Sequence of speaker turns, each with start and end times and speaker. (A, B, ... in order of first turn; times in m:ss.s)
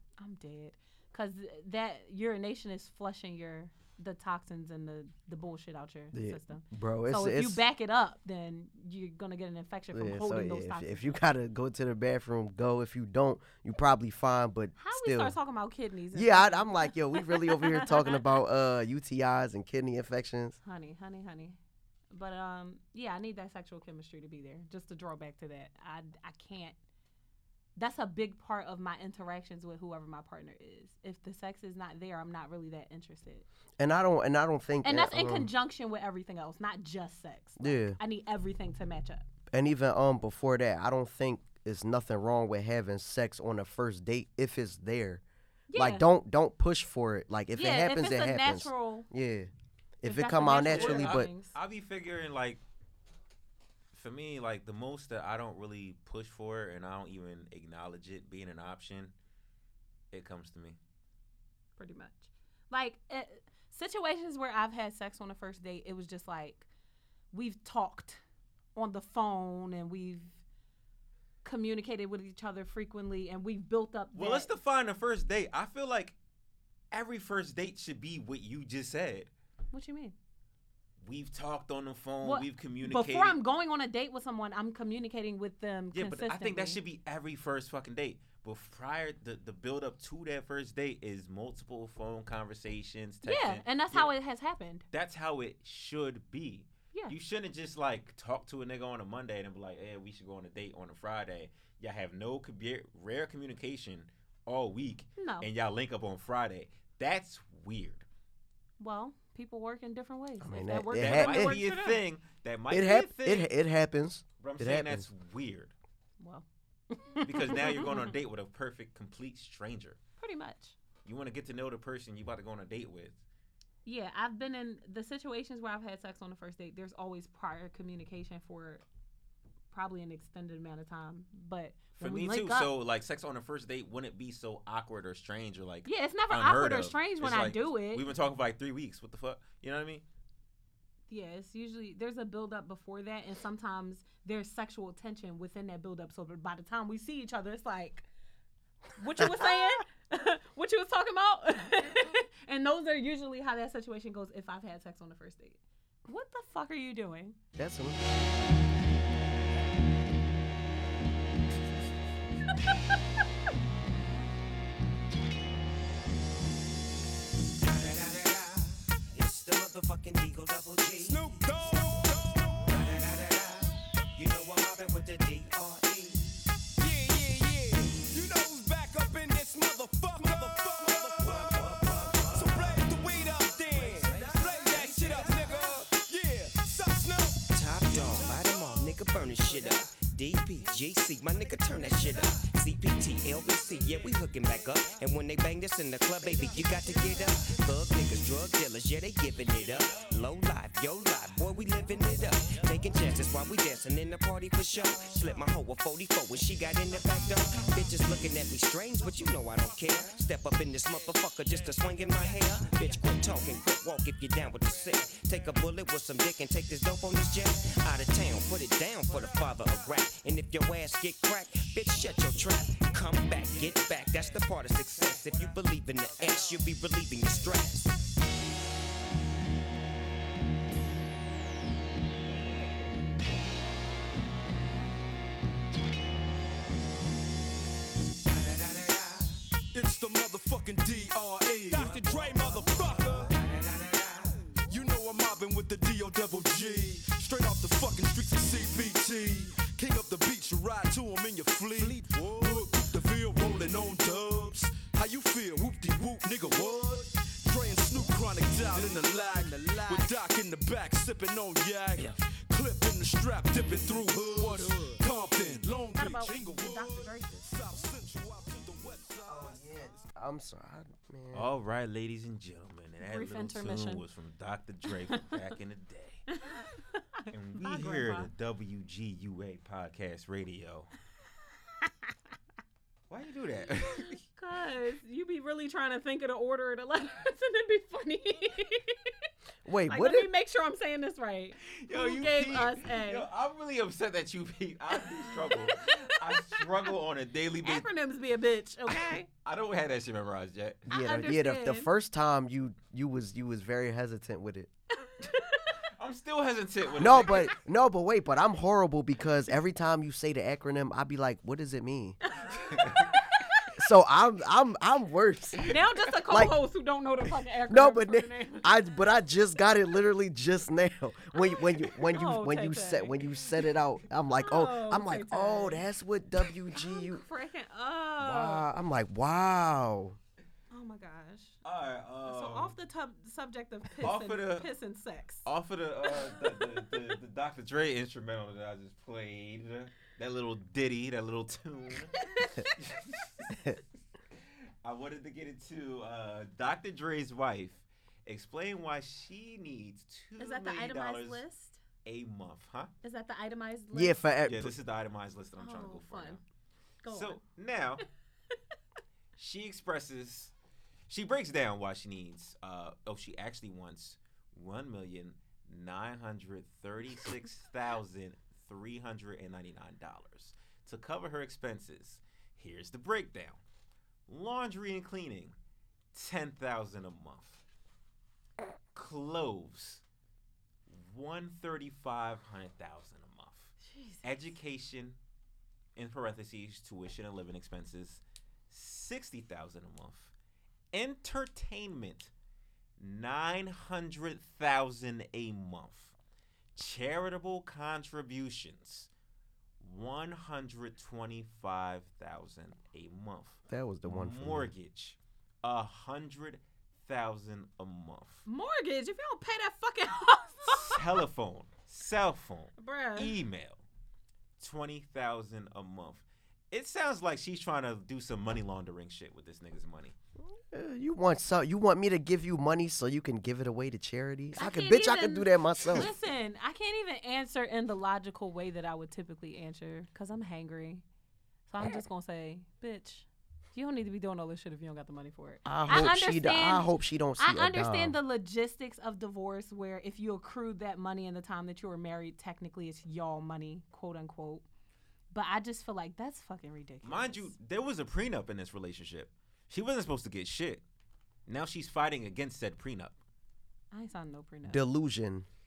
0:00.2-0:11.2 A
0:06.1-0:07.6 B
0:09.9-0:15.4 B
0:14.8-0:18.2 A
0:16.1-0:20.6 B
0:20.6-0:21.6 A
0:22.1-0:26.8 A
0:27.8-0:33.4 A
0:33.8-0:35.5 B
0:34.8-0:39.2 A
0:37.6-0:38.0 B
0:39.5-0:45.2 B
0:45.7-0:46.0 A
0:45.7-0:49.5 B
0:47.6-0:49.1 A
0:50.0-0:51.3 B
0:50.0-0:51.5 A
0:50.6-0:52.6 C
0:53.9-0:59.1 C
1:00.1-1:00.8 C
1:01.8-1:06.6 A
1:07.3-1:08.2 A
1:08.8-1:10.4 A
1:11.4-1:14.5 A
1:14.1-1:16.2 C
1:16.9-1:19.3 C
1:19.7-1:20.2 A
1:21.0-1:23.4 C
1:22.2-1:26.8 A
1:25.9-1:34.1 C
1:33.2-1:34.9 A
1:34.9-1:48.0 C
1:45.2-1:45.5 A
1:48.8-1:52.0 A
1:50.4-1:51.6 B
1:51.0-1:53.5 C
1:52.7-1:55.1 B
1:54.4-1:55.7 C
1:56.2-1:58.0 A
1:57.2-2:00.0 C
2:00.2-2:00.7 A
2:01.0-2:03.2 C
2:03.8-2:08.8 A
2:09.7-2:12.7 A
2:12.0-2:20.0 C
2:15.8-2:18.0 A
2:21.1-2:28.0 A
2:29.0-2:37.4 A
2:37.6-2:38.0 B
2:47.6-2:51.9 D
2:51.0-2:52.7 E
2:52.6-2:56.4 D
2:56.8-3:07.4 E
3:01.1-3:02.8 D
3:03.7-3:05.6 D
3:07.5-3:48.0 D
3:58.7-3:59.1 D
3:59.7-4:03.3 E
4:01.7-4:04.2 D
4:04.6-4:29.7 E
4:11.8-4:12.6 D
4:19.7-4:20.1 D
4:25.9-4:27.5 A
4:29.3-4:31.5 B
4:31.3-4:36.3 C
4:33.0-4:34.0 A
4:36.3-4:38.3 A
4:37.3-4:40.9 C
4:43.1-4:44.2 C
4:44.3-4:49.1 A
4:49.6-4:50.3 B
4:49.9-4:53.3 A
4:51.7-4:57.9 C
4:55.0-4:56.6 A
4:57.6-4:59.3 A
4:58.9-5:00.9 C
5:00.9-5:04.7 B
5:00.9-5:01.9 A
5:05.0-5:05.7 A
5:06.0-5:07.5 C
5:07.0-5:12.2 B
5:07.0-5:07.4 A
5:12.3-5:13.7 A
5:12.8-5:13.0 C
5:13.8-5:15.7 B
5:15.6-5:18.7 A
5:16.3-5:16.6 B
5:17.7-5:27.2 B
5:21.4-5:23.2 A
5:24.4-5:25.8 A
5:26.7-5:28.7 A
5:28.2-5:30.2 B
5:30.7-5:31.6 A
5:31.6-5:32.7 C
5:32.3-5:35.4 A
5:34.0-5:34.7 C
5:35.4-5:42.1 C
5:42.2-5:42.7 A
5:42.8-5:43.6 C
5:44.8-5:51.4 C
5:50.4-5:51.8 A
5:52.0-5:52.9 C
5:53.0-5:54.2 A
5:53.9-5:54.7 B
5:54.4-5:56.4 C
5:55.6-5:56.4 A
5:57.0-5:57.4 A
5:57.0-5:58.0 C
5:59.4-6:00.5 C
6:01.1-6:13.6 C
6:14.3-6:15.6 C
6:16.1-6:17.6 C
6:18.9-6:20.0 C
6:20.9-6:25.2 C
6:23.8-6:24.3 A
6:26.0-6:30.3 C
6:30.9-6:32.3 C
6:33.0-6:36.1 C
6:36.8-6:39.1 C
6:39.8-6:48.4 C
6:43.7-6:44.7 B
6:48.4-6:51.0 A
6:50.7-6:53.8 C
6:52.8-6:53.4 A
6:54.6-7:00.1 C
7:00.7-7:06.1 B
7:04.6-7:11.0 A
7:11.7-7:24.6 A
7:15.6-7:18.2 B
7:25.3-7:27.5 A
7:27.0-7:30.8 C
7:31.5-7:33.2 C
7:33.9-7:34.8 A
7:34.6-7:35.5 B